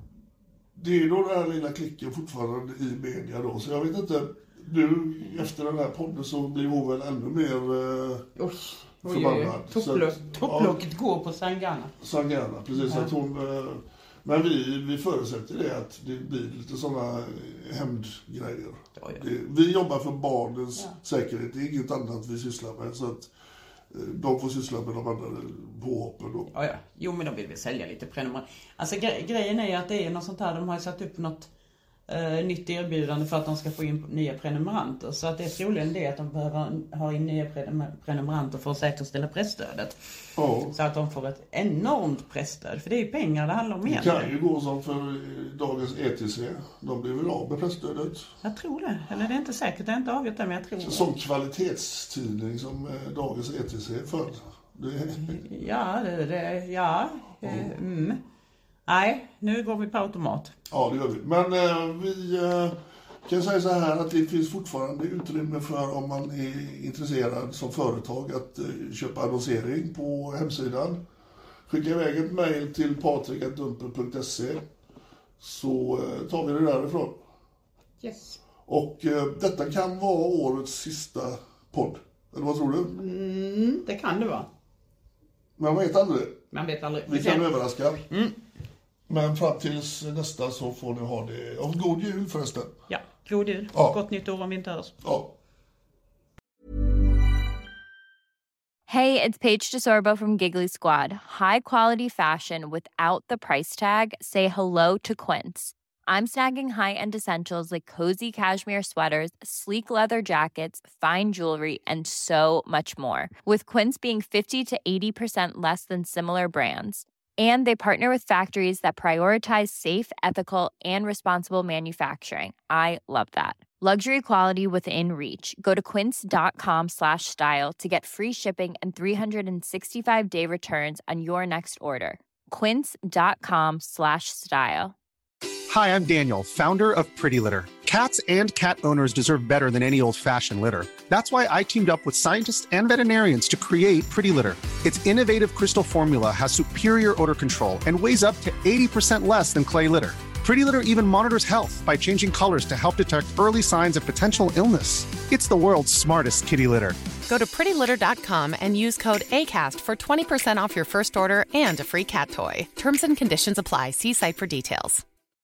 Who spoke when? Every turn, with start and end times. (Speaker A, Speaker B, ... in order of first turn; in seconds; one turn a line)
Speaker A: 0.7-8.3
Speaker B: 8.3-11.9
Speaker A: 9.0-10.8
Speaker A: 12.0-23.3
Speaker B: 12.8-13.1
Speaker B: 19.0-19.2
Speaker A: 23.9-26.5
Speaker B: 26.5-31.5
Speaker B: 32.1-40.0
Speaker A: 40.4-40.8
Speaker B: 40.7-44.3
Speaker A: 43.9-48.3
Speaker B: 48.4-51.1
Speaker A: 50.8-55.3
Speaker B: 55.2-58.2
Speaker A: 57.4-57.7
Speaker B: 58.9-60.5
Speaker A: 60.7-71.0
Speaker A: 71.7-74.6
Speaker A: 75.4-77.2
Speaker B: 78.0-78.4
Speaker A: 78.7-82.9
Speaker B: 82.8-84.5
Speaker A: 85.6-86.5
Speaker B: 86.5-87.5
Speaker A: 87.1-88.0
Speaker B: 88.1-88.4
Speaker A: 89.1-92.7
Speaker B: 92.9-95.0
Speaker A: 95.0-95.3
Speaker C: 98.9-134.9
Speaker D: 135.7-157.0
Speaker E: 157.3-165.0